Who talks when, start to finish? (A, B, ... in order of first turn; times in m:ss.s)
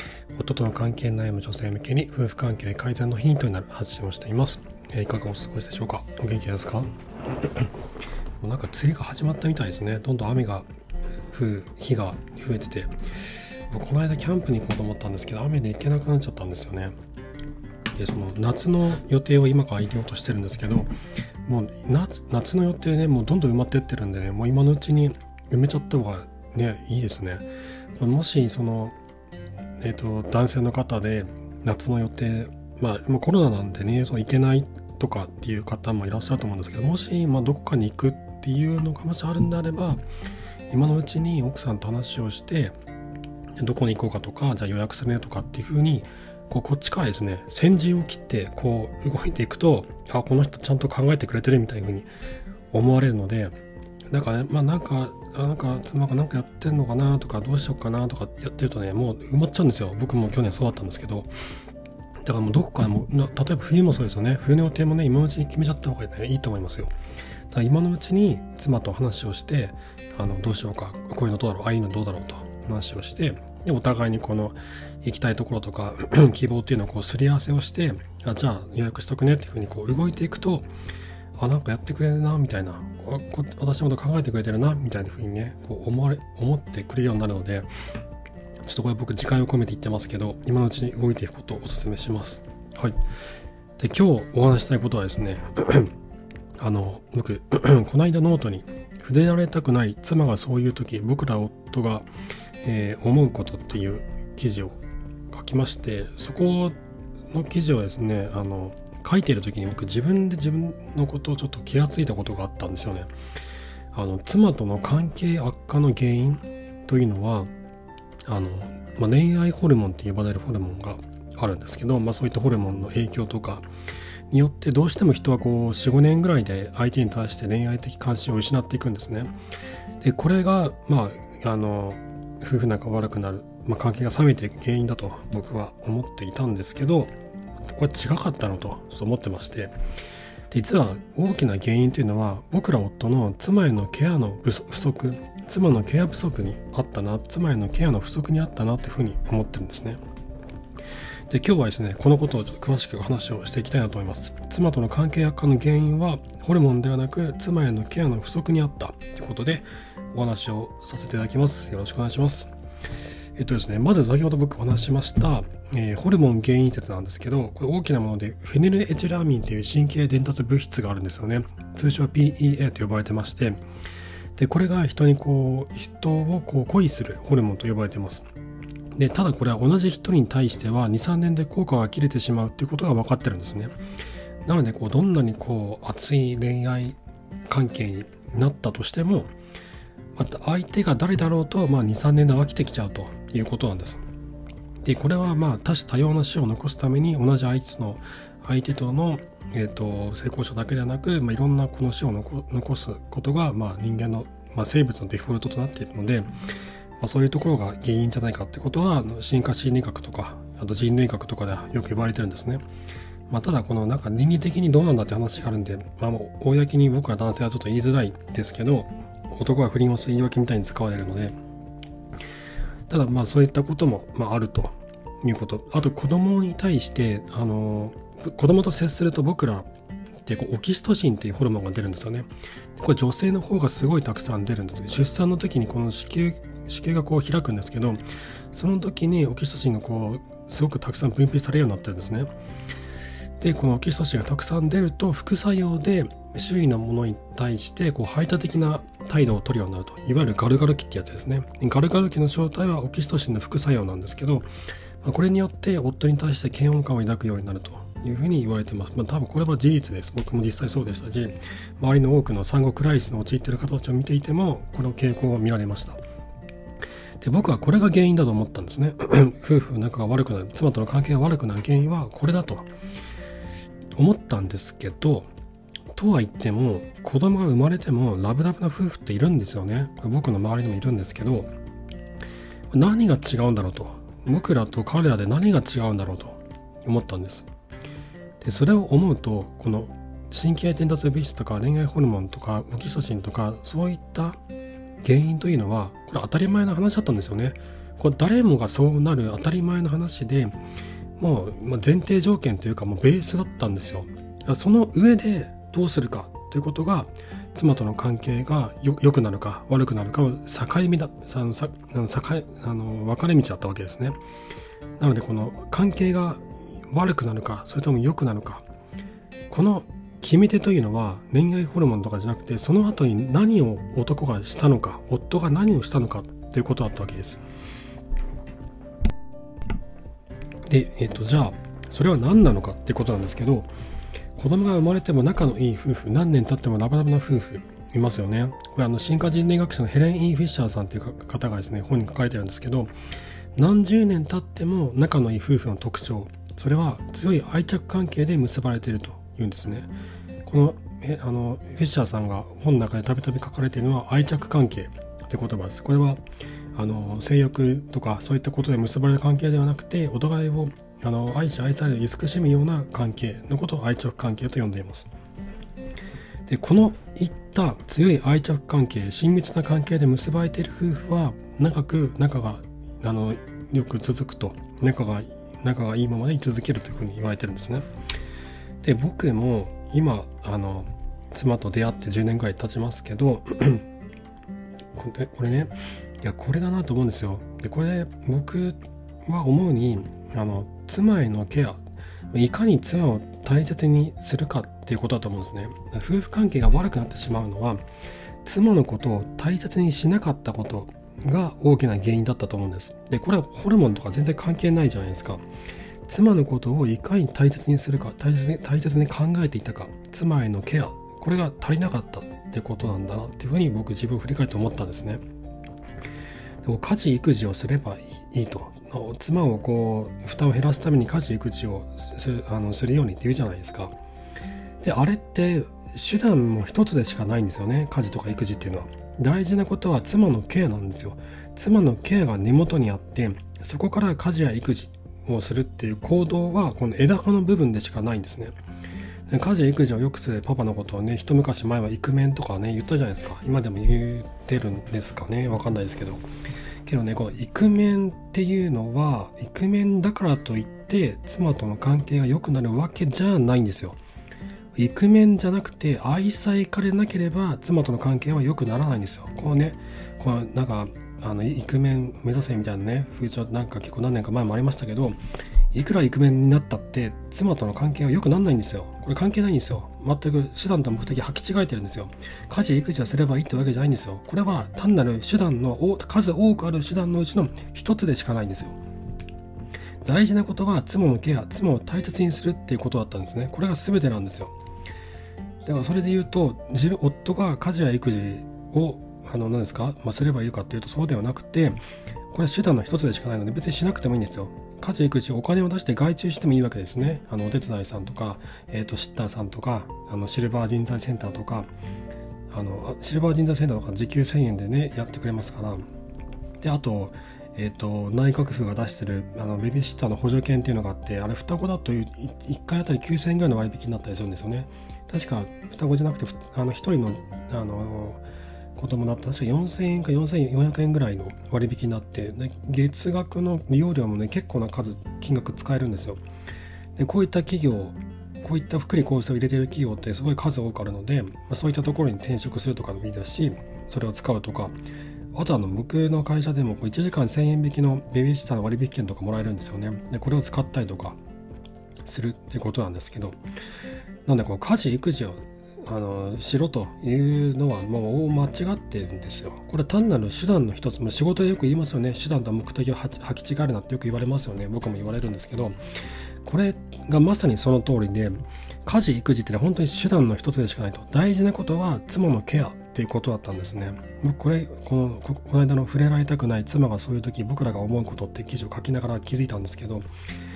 0:00.4-0:07.7 A
0:08.4-0:10.7 A
0:11.3-0:12.9 A
0:13.7-0:16.9 A
0:18.0-0:20.9 A
0:21.5-0:29.0 A
0:29.8-0:40.0 A
0:40.7-0:42.7 A
0:43.6-0:52.1 A
0:52.7-0:53.6 A
0:54.1-1:01.3 A
1:02.2-1:06.9 A
1:07.5-1:20.7 A
1:21.4-1:27.7 A
1:28.6-1:33.0 A
1:33.8-1:35.9 A
1:36.6-1:42.1 A
1:42.6-1:44.8 A
1:45.3-1:46.8 A
1:47.3-1:53.1 A
1:53.9-1:57.5 A
1:58.3-2:03.7 A
2:04.3-2:09.3 A
2:10.0-2:17.1 A
2:17.7-2:19.7 A
2:20.5-2:30.0 A
2:31.3-2:42.5 A
2:43.4-2:53.6 A
2:54.4-2:58.2 A
2:59.0-3:03.7 A
3:04.4-3:07.0 A
3:07.5-3:09.3 A
3:10.2-3:14.0 A
3:14.8-3:26.3 A
3:27.0-3:32.6 A
3:33.3-3:41.4 A
3:42.9-3:49.7 A
3:50.2-4:02.3 A
4:03.4-4:14.4 A
4:15.0-4:26.0 A
4:27.2-4:32.7 A
4:34.0-4:35.3 A
4:35.9-4:41.5 A
4:42.7-4:47.5 A
4:48.4-4:54.4 A
4:55.0-5:00.6 A
5:01.2-5:14.2 A
5:15.0-5:18.7 A
5:19.5-5:27.4 A
5:30.7-5:33.7 A
5:34.4-5:42.9 A
5:43.6-5:49.9 A
5:50.4-5:56.2 A
5:56.8-6:05.1 A
6:06.5-6:17.9 A
6:18.8-6:23.9 A
6:24.9-6:31.8 A
6:32.3-6:37.8 A
6:38.4-6:45.4 A
6:46.1-6:55.2 A
6:56.6-7:04.0 A
7:04.8-7:18.5 A
7:19.3-7:26.2 A
7:26.8-7:34.0 A
7:34.8-7:45.2 A
7:45.7-7:58.8 A
8:00.0-8:04.5 A
8:05.6-8:11.8 A
8:12.3-8:21.7 A
8:22.5-8:25.8 A
8:26.6-8:38.2 A
8:38.8-8:46.2 A
8:47.0-8:54.8 A
8:55.3-9:01.2 A
9:02.1-9:03.4 A
9:04.3-9:15.8 A
9:16.4-9:30.1 A